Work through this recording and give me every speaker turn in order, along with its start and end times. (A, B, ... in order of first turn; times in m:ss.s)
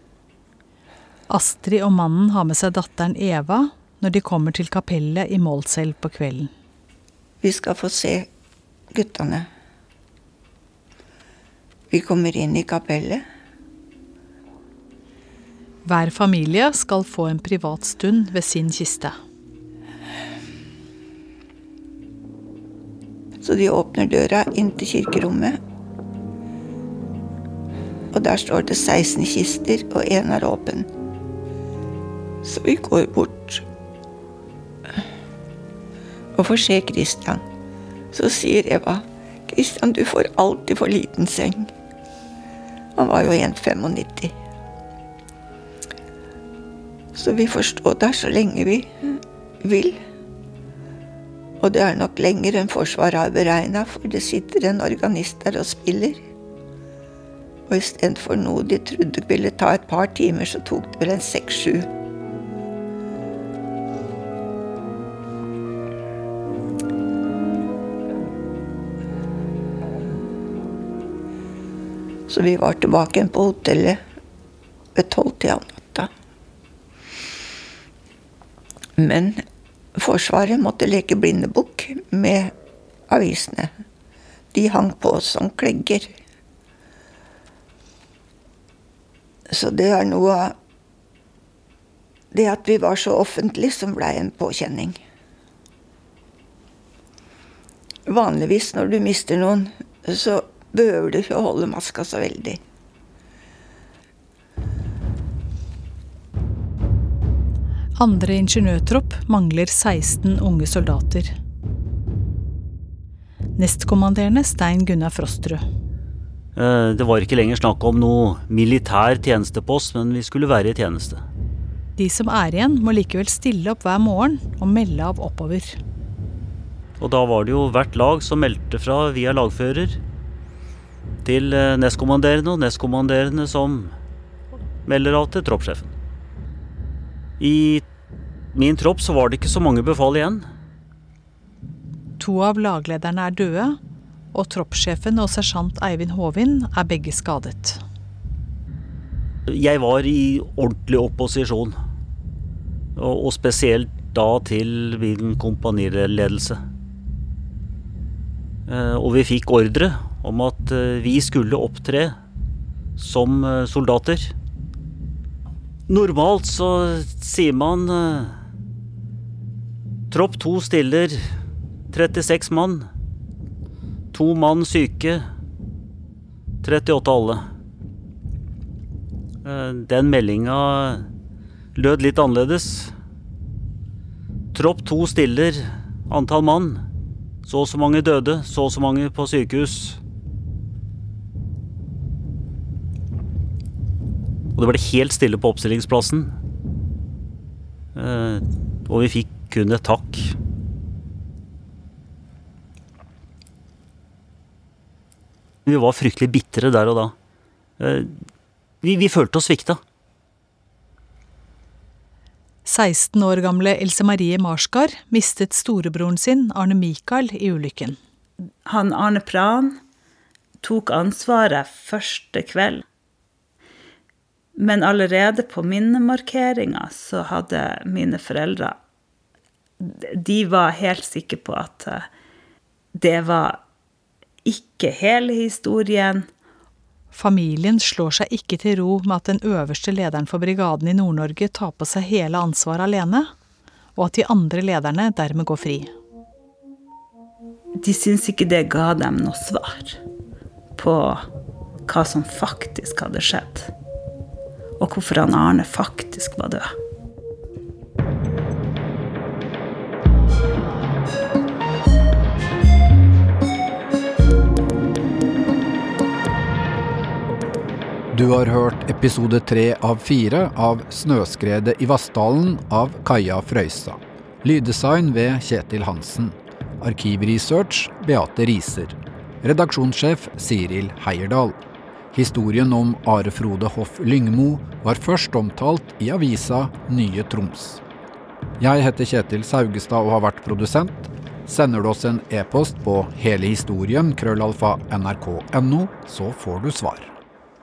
0:01.3-0:06.5 A
0:07.4-0:08.3 B
0:08.9-0:09.5 B
0:11.9-0:13.2 B
0:15.8-0:19.2 A
0:23.4-0:25.6 B
0:28.1-0:30.9 B
0:32.4-0:33.6 B
0:36.4-0:37.4 B
0:38.1-0:41.7 B
0:43.0-0:44.3 B
0:47.1-0:48.9 B
0:49.6-0:50.0 B
0:51.6-0:56.2 B
0:57.7-1:01.9 B
1:12.3-1:14.0 B
1:14.9-1:16.1 B
1:19.0-1:19.4 B
1:20.0-1:22.5 B
1:23.1-1:23.7 B
1:24.5-1:26.2 B
1:29.5-1:30.5 B
1:32.3-1:35.0 B
1:38.1-1:42.6 B
1:48.0-1:51.3 A
1:53.6-1:55.6 A
1:56.6-2:01.2 C
2:02.0-2:05.8 A
2:07.0-2:10.0 C
2:11.2-2:13.9 C
2:14.8-2:15.9 C
2:17.4-2:17.8 C
2:18.5-2:20.4 C
2:22.2-2:23.8 A
2:24.3-2:27.8 A
2:29.5-2:31.8 C
2:33.0-2:36.6 C
2:38.7-2:42.2 C
2:43.0-2:44.3 C
2:45.9-2:48.4 C
2:50.1-2:51.3 C
2:51.9-2:52.9 C
2:54.1-2:55.3 C
2:56.6-2:57.4 C
2:59.4-3:01.0 C
3:01.7-3:02.9 C
3:04.5-3:06.8 C
3:07.4-3:10.0 C
3:14.5-3:16.3 C
3:17.9-3:20.3 C
3:25.6-3:27.1 C
3:27.8-3:28.2 C
3:28.8-3:29.8 C
3:32.6-3:38.0 A
3:38.6-3:39.8 D
3:40.6-3:42.8 D
3:44.6-3:48.8 D
3:49.8-3:52.1 D
3:52.9-3:53.6 D
3:54.4-3:56.3 D
3:57.1-4:03.3 A
4:04.0-4:05.9 A
4:07.8-4:10.0 D
4:10.8-4:11.3 D
4:11.9-4:13.7 D
4:14.8-4:16.7 D
4:28.1-4:41.6 E
4:42.1-4:47.8 E
4:48.6-4:57.1 E